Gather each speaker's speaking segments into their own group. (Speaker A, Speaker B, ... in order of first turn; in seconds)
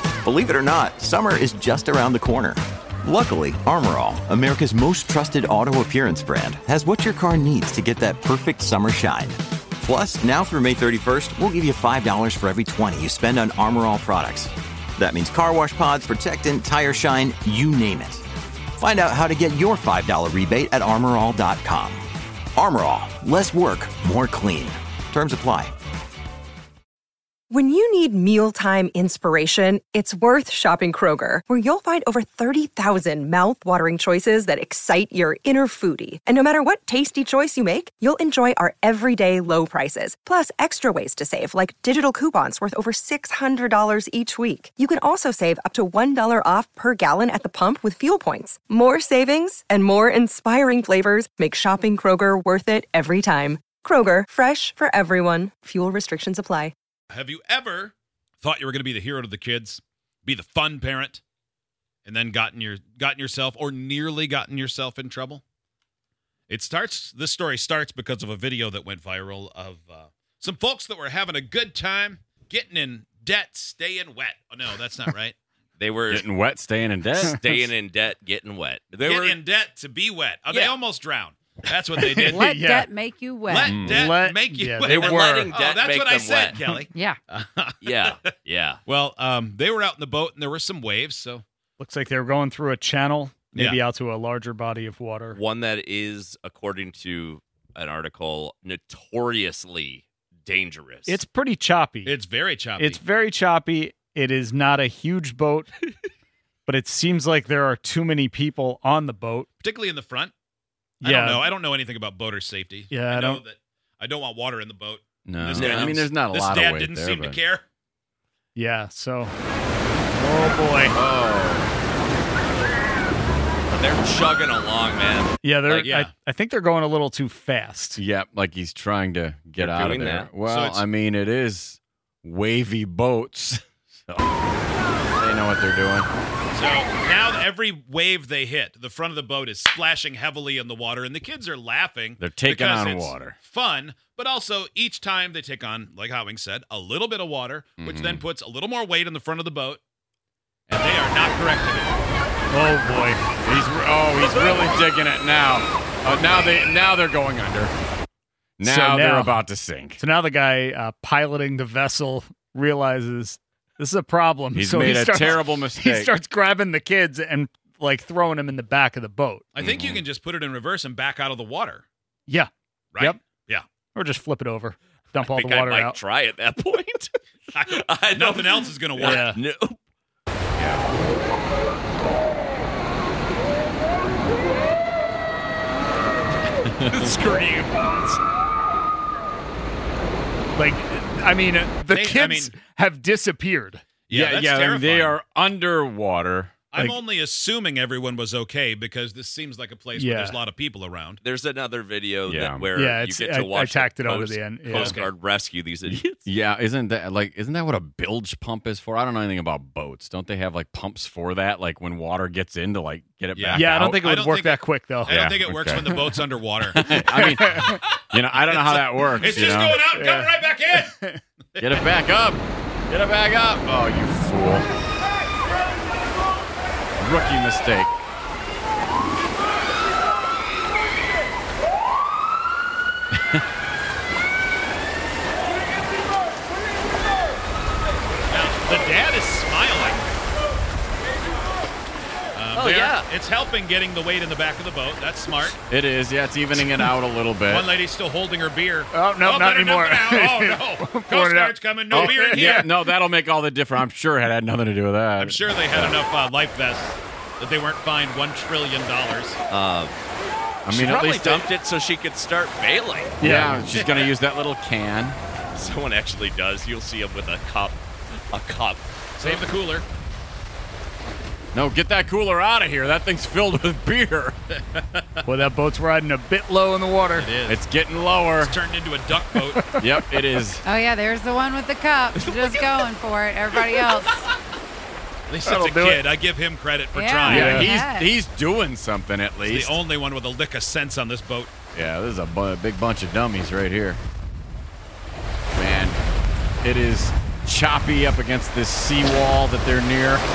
Speaker A: 0.2-18.2, 18.8-22.0, 22.6-25.7
Speaker B: 27.5-56.7
Speaker C: 57.1-61.2, 62.0-65.4, 66.5-75.3, 79.0-82.5, 83.5-88.3, 88.9-91.4, 93.5-93.8, 102.0-103.0, 109.6-110.3, 111.0-117.6, 125.7-126.1, 130.4-130.8, 136.5-149.8, 150.7-151.9, 169.6-171.8, 172.9-173.7, 177.5-179.2, 191.9-192.5, 194.1-195.2, 196.7-201.2, 204.7-205.1, 213.3-216.8, 217.7-220.9, 221.6-221.8, 238.3-240.1, 242.3-245.6, 247.4-252.8, 255.2-259.4, 263.8-264.1, 269.2-269.9, 274.7-275.2, 277.1-277.6, 278.4-279.6, 285.3-287.8, 289.4-291.5
Speaker D: 75.8-76.2, 77.2-79.4, 80.5-80.8, 84.8-86.6, 87.8-88.8, 95.3-101.2, 115.5-116.1, 123.7-125.3, 129.6-130.3, 175.2-179.8, 186.8-188.2, 201.2-206.2, 242.5-243.1, 259.5-260.0, 260.7-263.2, 265.5-269.3
Speaker E: 76.1-77.6, 83.7-84.0, 115.2-117.4, 120.9-121.7, 128.0-134.3, 135.2-136.1, 142.2-143.4, 147.8-148.2, 153.4-157.7, 158.6-160.0, 164.5-166.1, 169.6-170.0, 180.6-180.8, 194.1-196.5, 202.2-202.7, 205.9-214.1, 215.1-216.0, 216.7-219.8, 221.6-224.7, 227.0-227.9, 245.7-247.7, 251.9-256.0, 260.6-261.5, 263.2-265.2, 271.5-274.4, 277.5-278.6, 279.8-280.6, 287.3-289.8, 291.7-294.0, 295.5-296.0, 296.6-300.2
Speaker F: 81.9-82.9, 83.7-85.5, 91.8-95.4, 101.1-102.2, 102.8-105.7, 106.7-109.5, 111.0-111.5, 112.9-113.4, 118.5-119.3, 120.2-121.0, 125.4-128.0, 152.5-153.2, 158.6-159.4, 160.0-169.5, 172.3-173.2, 173.9-176.0, 179.0-179.4, 190.6-193.8, 199.9-200.4, 202.7-205.0, 213.5-215.4, 216.9-217.7, 219.9-221.2, 248.9-252.9, 263.2-263.7, 275.2-277.3, 279.2-280.4, 285.4-286.0, 287.3-287.7
Speaker G: 82.2-83.8, 86.9-87.2, 280.6-284.2, 286.9-288.1